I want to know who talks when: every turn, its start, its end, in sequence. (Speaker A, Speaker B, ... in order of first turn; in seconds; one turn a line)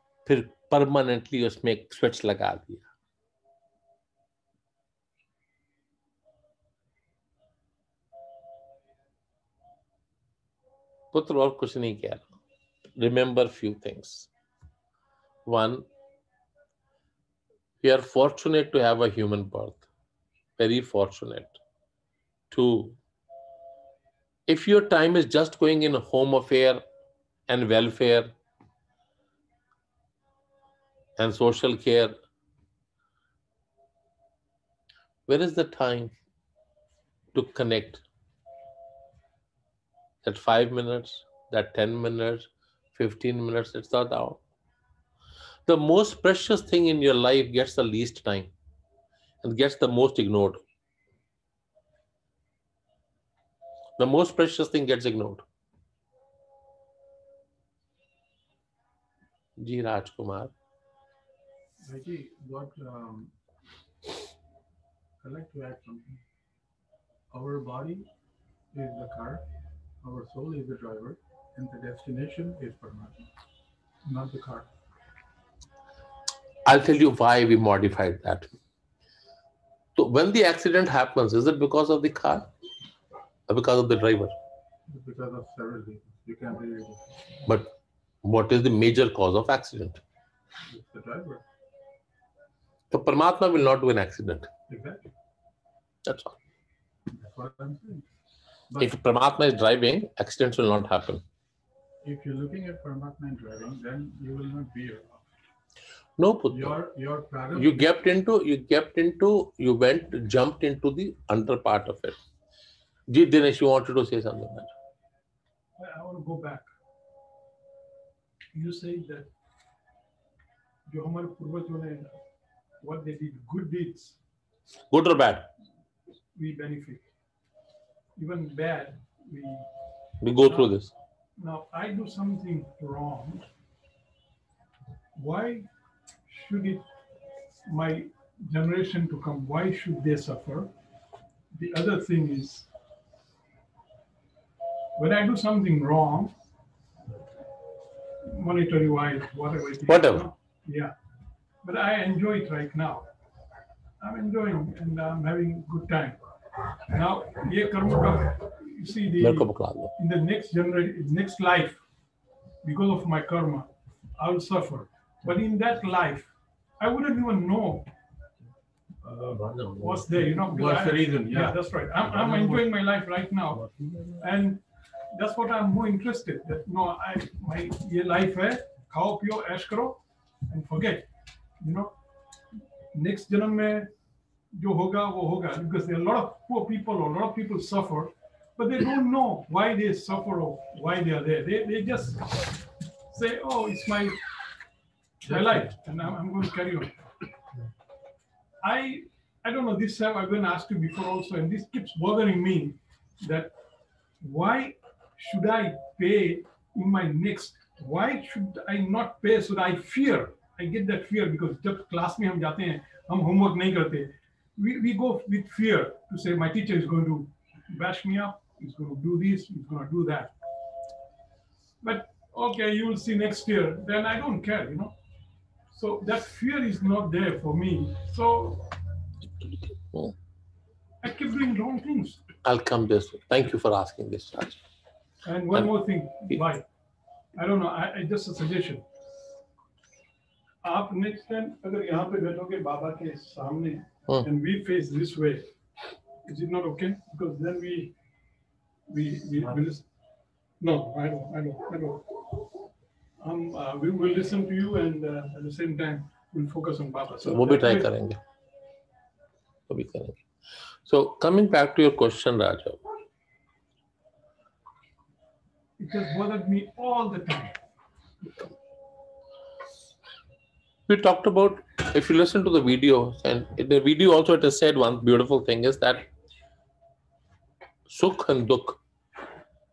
Speaker A: 0.3-2.9
Speaker A: 11.1-12.3
Speaker A: 13.0-14.3
Speaker A: 15.5-15.9
Speaker A: 17.8-19.8
Speaker A: 20.6-21.6
Speaker A: 22.5-23.0
Speaker A: 24.5-26.8
Speaker A: 27.5-28.3
Speaker A: 31.2-32.1
Speaker A: 35.3-36.1
Speaker A: 37.3-38.0
Speaker A: 40.2-44.4
Speaker A: 45.7-48.5
Speaker A: 49.4-50.6
Speaker A: 54.0-55.4
Speaker A: 59.6-60.5
Speaker B: 61.8-63.3
Speaker B: 65.2-66.2
Speaker B: 67.3-68.1
Speaker B: 68.7-69.4
Speaker B: 70.0-73.3
Speaker B: 74.0-74.7
Speaker A: 76.7-78.5
Speaker A: 80.0-82.5
Speaker A: 83.5-84.3
Speaker B: 84.9-87.2
Speaker A: 88.2-90.0
Speaker B: 90.7-91.4
Speaker A: 92.9-94.5
Speaker B: 94.7-95.0
Speaker A: 96.1-96.4
Speaker B: 97.1-98.1
Speaker A: 98.8-101.2
Speaker B: 102.0-105.3
Speaker A: 106.2-106.8
Speaker B: 106.5-107.9
Speaker A: 107.6-112.2
Speaker A: 113.1-114.7
Speaker C: 115.8-116.7
Speaker C: 118.5-119.3
Speaker C: 120.9-122.2
Speaker C: 122.8-124.2
Speaker A: 124.9-125.5
Speaker C: 126.3-127.0
Speaker C: 128.2-129.7
Speaker A: 130.2-130.9
Speaker C: 131.4-133.5
Speaker C: 135.2-135.7
Speaker C: 136.3-136.8
Speaker C: 137.7-140.7
Speaker C: 141.5-142.7
Speaker C: 145.0-146.3
Speaker C: 148.2-150.9
Speaker A: 149.9-150.3
Speaker C: 151.6-153.1
Speaker C: 154.0-156.2
Speaker C: 156.9-161.8
Speaker A: 159.2-159.9
Speaker C: 162.6-167.9
Speaker B: 169.0-172.7
Speaker C: 169.8-173.7
Speaker B: 173.5-174.2
Speaker C: 174.2-181.1
Speaker C: 181.6-182.0
Speaker C: 182.9-183.9
Speaker C: 184.5-194.2
Speaker B: 195.2-195.8
Speaker C: 195.2-197.1
Speaker C: 198.6-203.5
Speaker C: 204.2-220.3
Speaker C: 221.8-225.0
Speaker C: 225.7-228.8
Speaker C: 231.0-232.2
Speaker A: 232.4-234.6
Speaker C: 235.2-236.7
Speaker C: 237.3-238.8
Speaker C: 240.6-245.5
Speaker C: 246.2-247.9
Speaker C: 248.9-249.8
Speaker C: 250.6-252.4
Speaker C: 253.2-257.9
Speaker A: 257.2-258.2
Speaker A: 259.7-260.2
Speaker A: 260.9-262.8
Speaker C: 265.8-267.6
Speaker A: 270.9-276.1
Speaker A: 277.9-278.8